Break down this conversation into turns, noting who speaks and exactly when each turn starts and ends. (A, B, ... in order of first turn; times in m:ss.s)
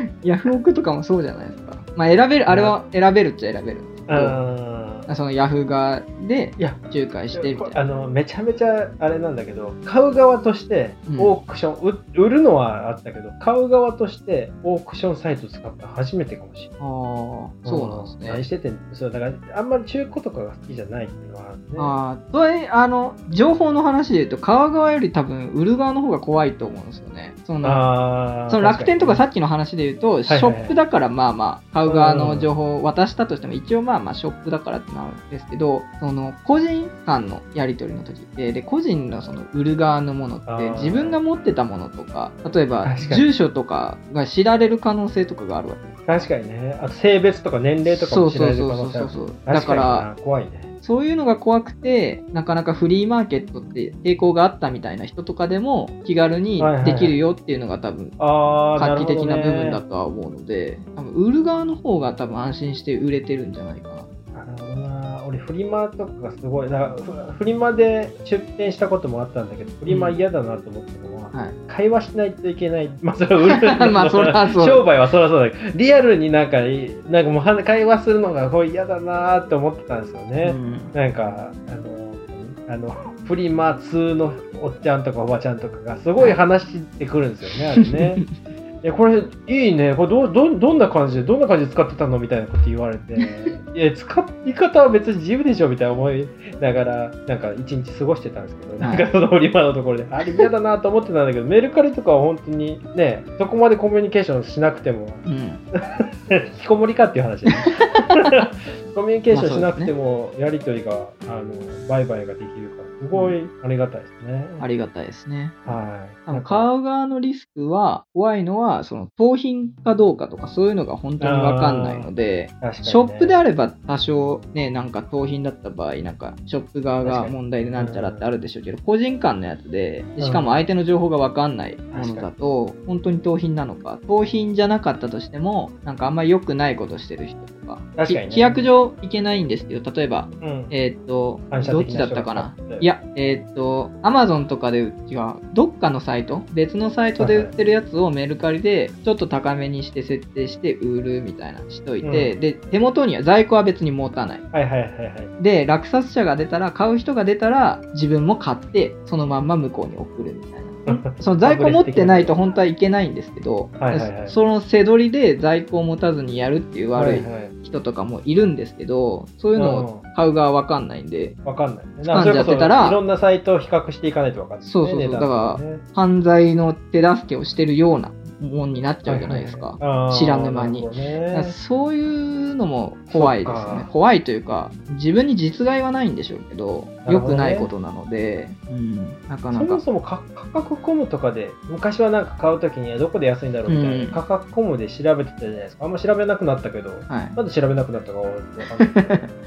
0:00.2-0:04.4 A
0:02.5-0:02.8 B
0:04.1-0:05.1 B
0:05.1-0:07.8 A
0:07.3-0:16.7 B
0:11.1-0:11.3 A
0:16.8-0:18.4 A
0:17.6-0:22.0 B
0:21.8-0:27.9 A
0:27.6-0:29.2 B
0:28.5-0:45.9 A
0:30.3-0:30.8 B
0:31.8-0:32.5 B
0:40.5-0:41.2 B
0:42.8-0:43.3 B
0:46.1-0:50.7 B
0:47.8-0:50.1 A
0:50.8-0:58.2 A
0:56.6-0:57.2 B
0:58.2-0:59.8 B
0:58.8-1:04.1 A
1:04.3-1:28.2 B
1:09.9-1:10.2 A
1:13.4-1:14.8 A
1:20.4-1:20.9 A
1:27.8-1:28.3 A
1:28.8-1:54.6 B
1:38.8-1:39.0 A
1:45.2-1:45.6 A
1:47.6-1:48.3 A
1:49.3-1:49.9 A
1:53.1-1:53.4 A
1:54.6-2:34.4 A
1:55.6-1:56.7 B
2:01.2-2:02.1 B
2:02.6-2:03.4 B
2:07.0-2:08.2 B
2:10.2-2:10.6 B
2:11.9-2:12.3 B
2:18.0-2:18.7 B
2:20.4-2:20.7 B
2:21.5-2:22.9 B
2:27.2-2:27.5 B
2:32.0-2:32.3 B
2:34.5-2:35.3 B
2:35.4-2:51.4 A
2:40.9-2:42.4 B
2:43.8-2:44.4 B
2:47.0-2:47.5 B
2:49.6-2:50.0 B
2:51.4-2:55.8 B
2:52.1-2:53.0 A
2:54.6-3:09.8 A
2:59.0-3:01.6 B
3:03.1-3:03.9 B
3:07.0-3:07.7 B
3:09.5-3:19.2 B
3:13.7-3:14.2 A
3:17.1-3:17.4 A
3:18.8-3:19.3 A